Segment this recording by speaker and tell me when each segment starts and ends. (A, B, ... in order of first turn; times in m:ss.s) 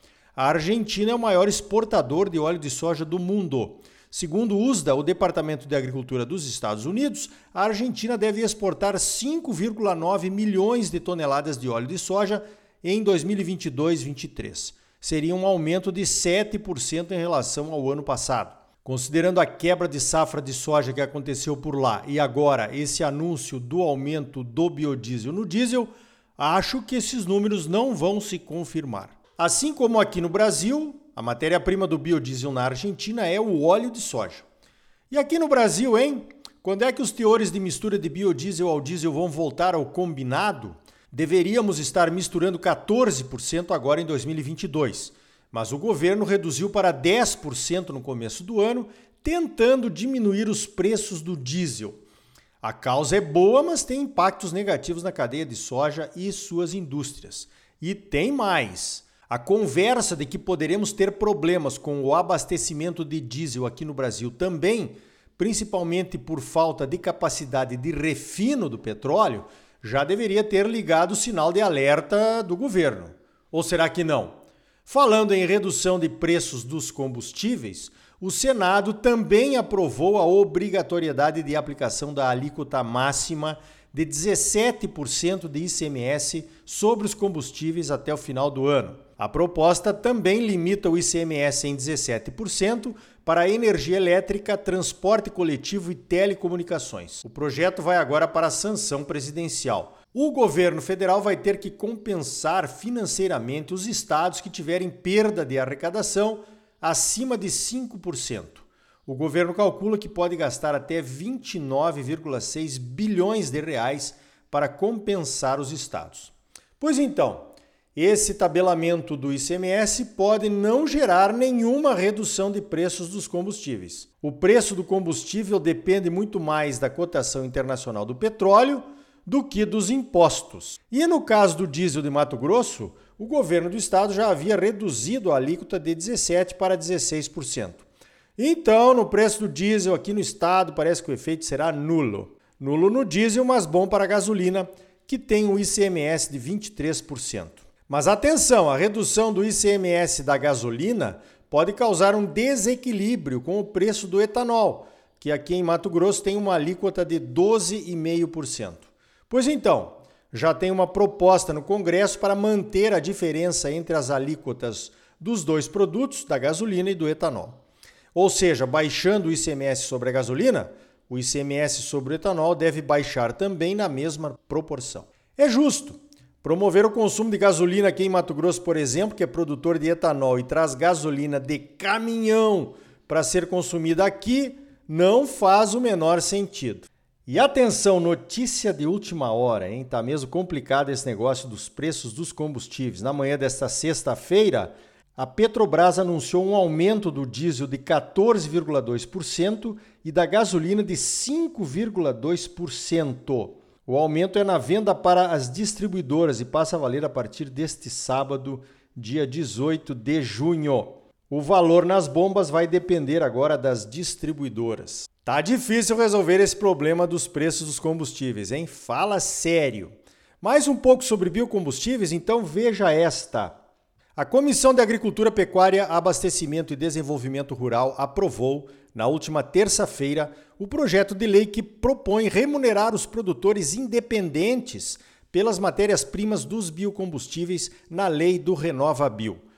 0:00.4-0:34.4 A
0:35.1-0:52.0 A
0:52.6-2:17.8 A
2:18.4-2:47.6 A
2:48.1-3:43.6 A
3:44.2-3:59.4 A